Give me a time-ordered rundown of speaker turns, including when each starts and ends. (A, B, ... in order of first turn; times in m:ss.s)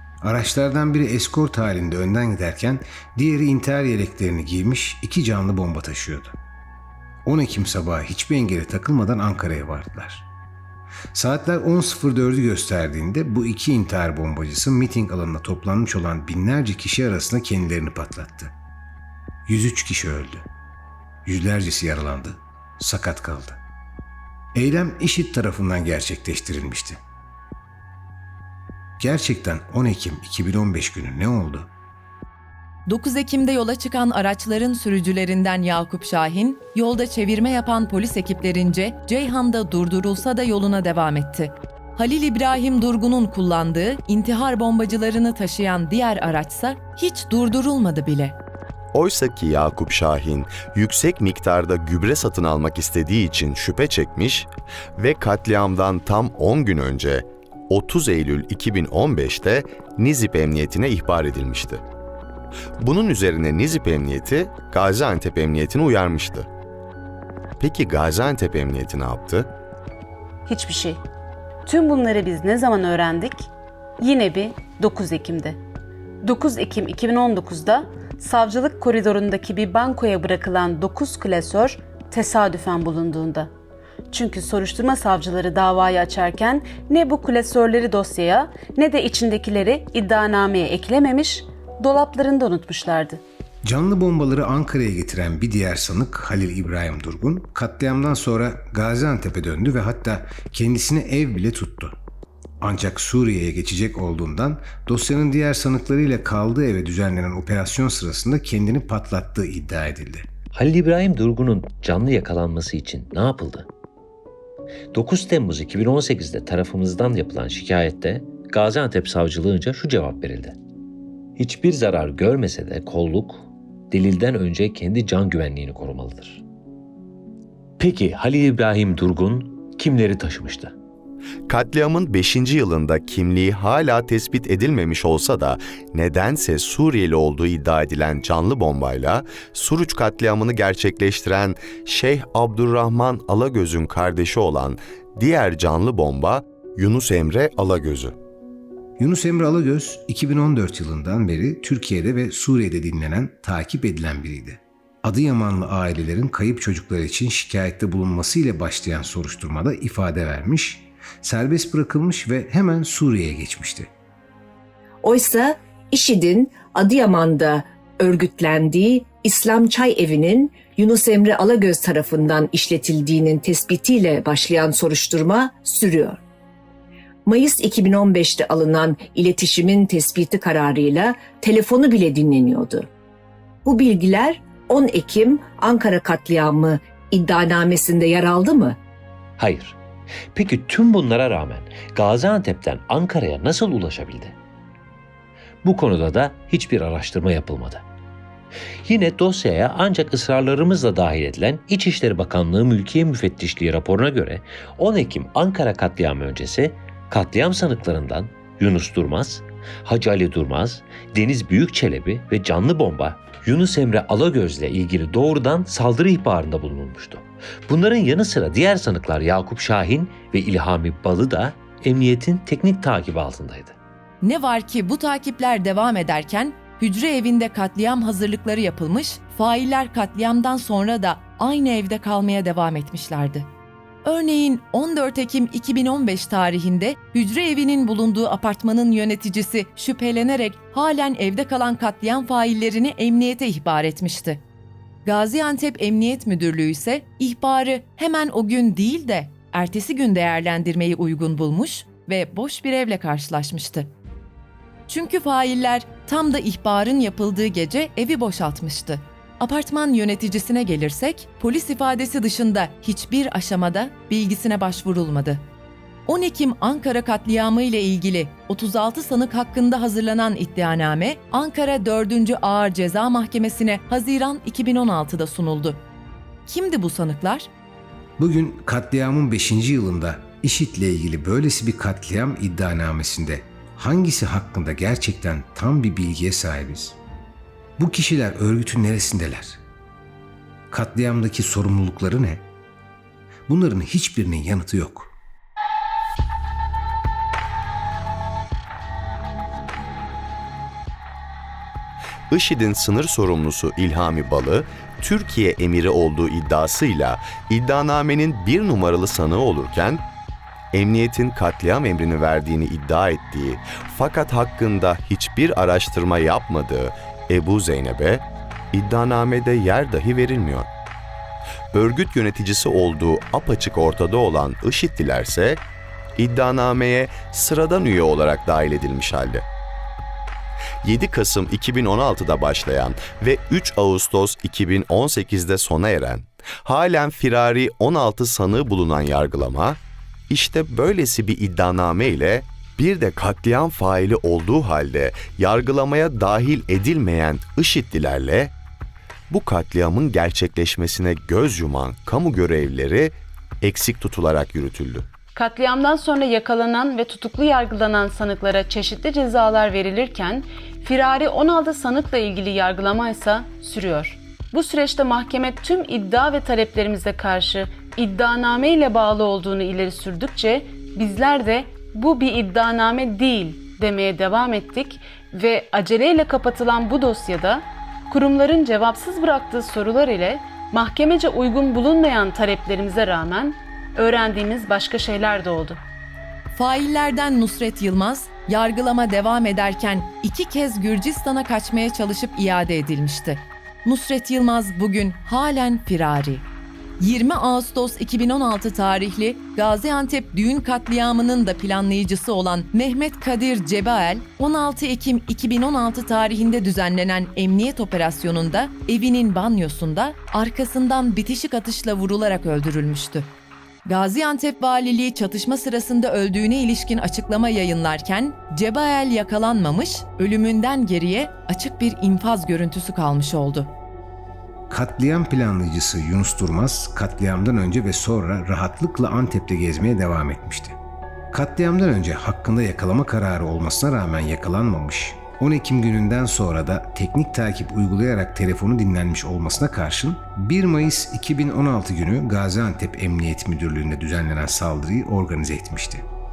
0:00.2-0:06.3 A
0:07.2-0:10.3 A
0:11.1-0:18.5 A
0:19.5-0:20.4 A
0:21.2-0:23.6 A
0:24.5-0:27.0 A
0:29.0-0:31.7 A
0:32.8-0:48.4 B
0:48.9-1:01.8 C
1:02.8-1:06.5 C
1:07.6-1:09.5 C
1:10.5-1:11.0 D
1:11.6-1:13.5 D
1:14.0-1:15.6 D
1:16.2-1:23.5 D
1:24.1-1:33.2 D
1:33.6-1:42.0 A
1:42.6-1:50.2 A
1:50.5-1:53.7 E
1:54.9-2:00.6 E
2:01.4-2:06.4 E
2:07.8-2:10.7 E
2:11.5-2:28.1 C
2:29.0-2:43.9 A
2:45.0-2:56.2 F
2:57.2-3:02.9 F
3:03.6-3:08.8 F
3:09.4-3:09.8 E
3:10.3-3:14.4 E
3:15.6-3:17.8 E
3:18.8-3:43.8 E
3:44.2-3:53.5 B
3:54.0-4:04.4 B
4:05.0-4:13.9 B
4:14.9-4:25.4 B
4:26.1-4:35.8 B
4:36.4-4:37.5 B
4:38.2-4:47.0 A
4:47.8-4:49.6 A
4:50.7-4:52.4 A
4:53.5-4:55.1 A
5:02.3-5:10.0 C
5:10.7-5:20.7 C
5:21.7-5:25.6 C
5:26.2-5:29.4 C
5:30.8-5:39.8 C
5:40.3-5:48.5 C
5:49.3-5:55.1 C
5:55.3-6:25.8 D
6:26.5-6:36.5 B
6:37.0-6:53.3 B
6:53.8-7:03.7 B
7:04.7-7:10.8 A
7:11.3-7:26.0 A